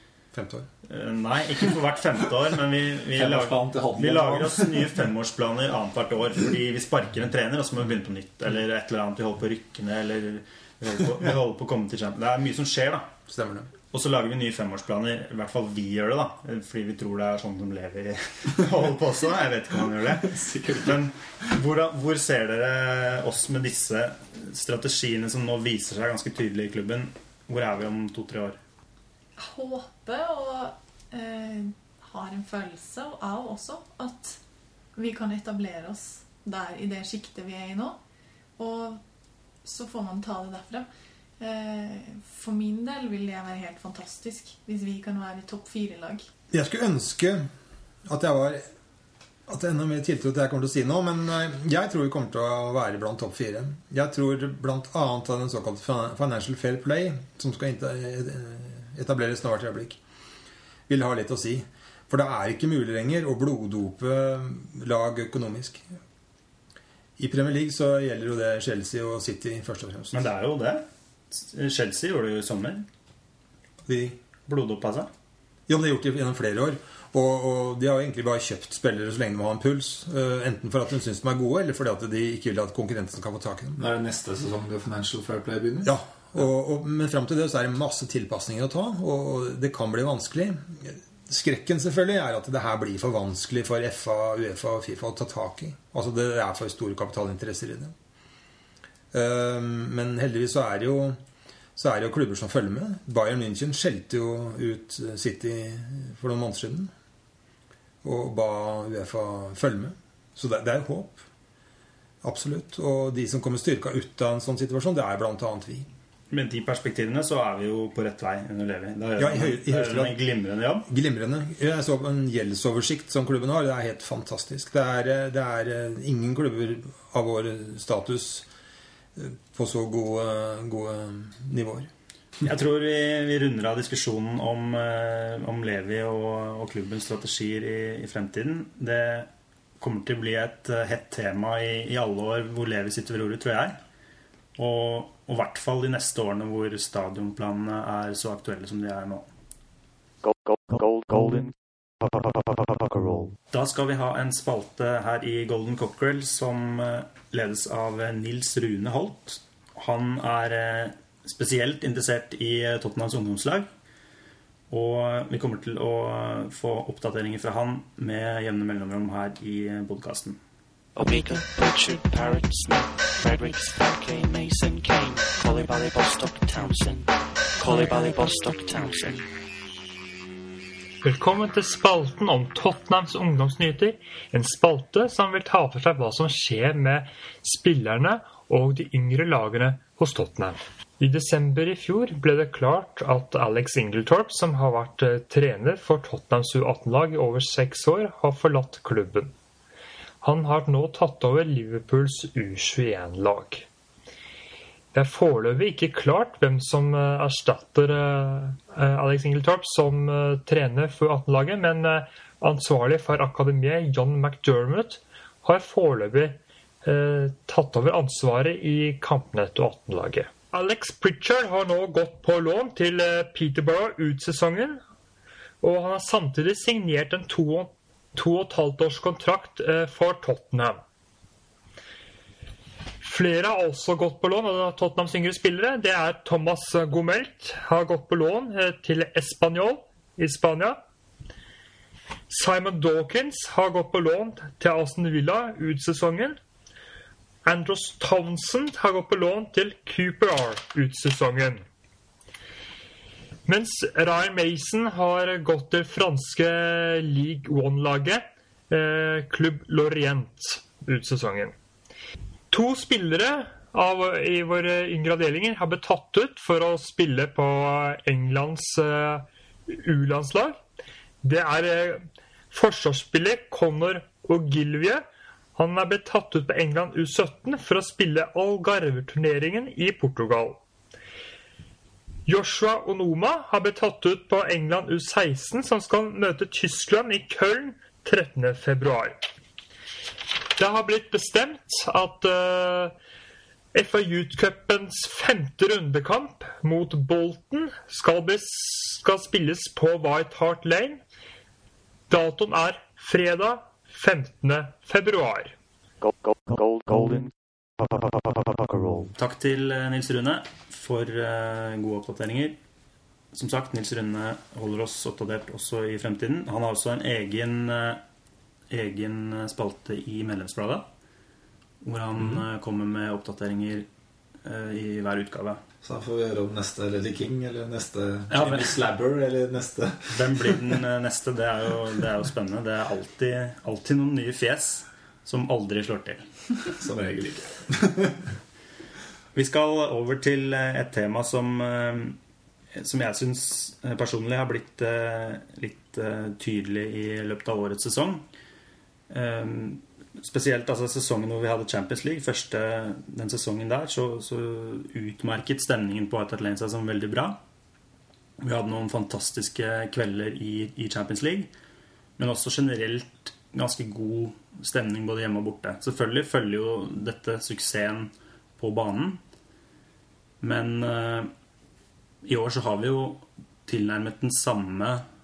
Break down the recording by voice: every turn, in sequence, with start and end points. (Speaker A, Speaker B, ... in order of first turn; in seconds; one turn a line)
Speaker A: 0.3-0.7
Speaker B: 0.9-13.1
Speaker C: 3.1-4.9
Speaker A: 13.3-13.7
Speaker B: 13.9-28.6
Speaker C: 20.2-21.0
Speaker D: 29.4-34.4
Speaker D: 35.0-38.0
Speaker D: 38.6-39.0
Speaker D: 39.6-40.9
Speaker D: 41.4-46.3
Speaker A: 46.5-47.4
Speaker A: 48.0-48.6
Speaker A: 49.5-60.0
Speaker A: 60.9-65.8
Speaker A: 67.2-70.2
Speaker B: 70.1-72.9
Speaker A: 73.9-74.2
Speaker B: 74.5-75.1
Speaker A: 75.7-83.8
Speaker C: 83.7-85.9
Speaker A: 85.8-97.9
Speaker A: 99.1-101.2
Speaker A: 101.8-106.9
Speaker A: 108.0-111.2
Speaker A: 112.2-115.9
Speaker B: 116.3-120.9
Speaker A: 119.2-120.2
Speaker A: 120.9-128.5
Speaker A: 129.2-131.9
Speaker B: 132.4-143.8
Speaker B: 144.6-149.3
Speaker E: 150.2-153.3
Speaker B: 153.5-163.7
Speaker B: 164.7-170.4
Speaker F: 170.9-179.2
Speaker G: 181.0-199.3
Speaker G: 200.2-203.7
Speaker G: 204.9-224.8
Speaker G: 225.6-230.8
Speaker G: 233.0-240.8
Speaker G: 242.3-246.4
Speaker G: 247.4-251.6
Speaker G: 253.4-261.5
Speaker G: 262.5-270.6
Speaker G: 271.2-280.6
Speaker G: 282.2-289.2
Speaker G: 290.6-292.9
Speaker G: 293.7-301.0
Speaker G: 302.1-305.6
Speaker E: 306.0-309.1
Speaker B: 309.2-312.6
Speaker B: 313.3-318.0
Speaker B: 318.7-320.9
Speaker B: 321.8-323.9
Speaker B: 324.4-325.6
Speaker C: 325.8-330.8
Speaker B: 328.3-328.8
Speaker B: 330.1-336.2
Speaker C: 336.8-338.3
Speaker B: 339.3-342.2
Speaker B: 342.7-348.2
Speaker B: 349.1-357.4
Speaker B: 358.4-361.5
Speaker B: 362.2-369.2
Speaker B: 370.4-371.3
Speaker B: 372.2-375.0